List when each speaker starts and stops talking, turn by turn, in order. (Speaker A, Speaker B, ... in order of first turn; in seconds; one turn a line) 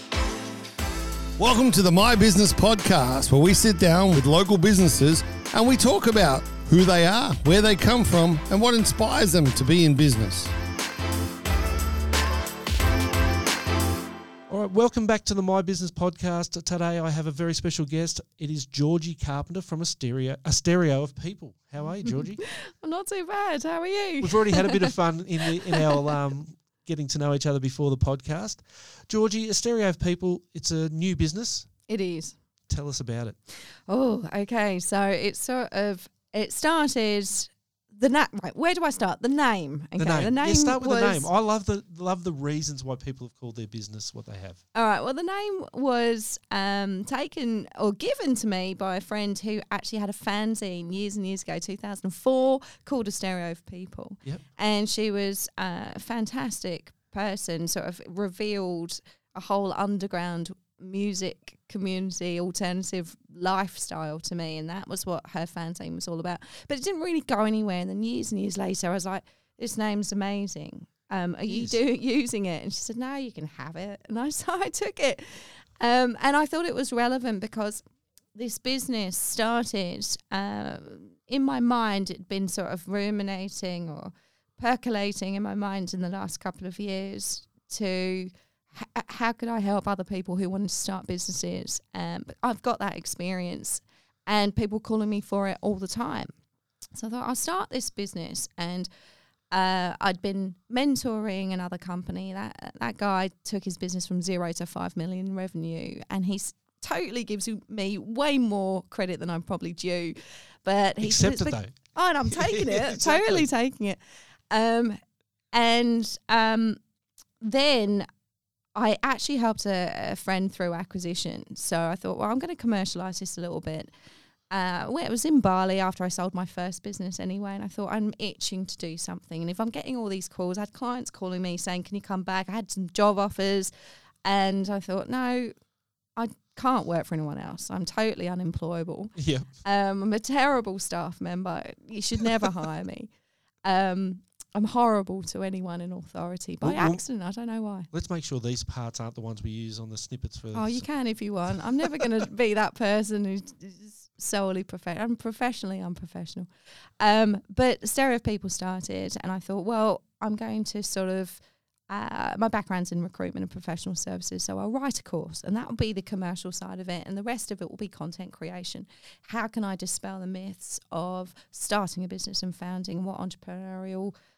Speaker A: 1.4-10.5
Speaker B: 14.5-22.4
Speaker C: 22.1-24.9
Speaker B: 24.2-31.7
Speaker C: 25.6-26.0
Speaker C: 31.9-32.4
Speaker B: 32.7-33.4
Speaker C: 33.5-41.3
Speaker B: 40.0-44.6
Speaker C: 44.7-96.3
Speaker B: 71.5-71.8
Speaker C: 97.0-98.9
Speaker C: 99.5-115.0
Speaker B: 111.0-111.8
Speaker B: 112.3-113.4
Speaker C: 115.5-116.8
Speaker C: 117.4-118.1
Speaker C: 118.7-123.9
Speaker C: 124.5-133.7
Speaker C: 134.2-135.5
Speaker C: 136.2-143.1
Speaker B: 139.2-139.5
Speaker C: 143.6-147.9
Speaker B: 146.6-147.0
Speaker B: 147.9-150.9
Speaker C: 150.5-156.5
Speaker C: 157.0-174.1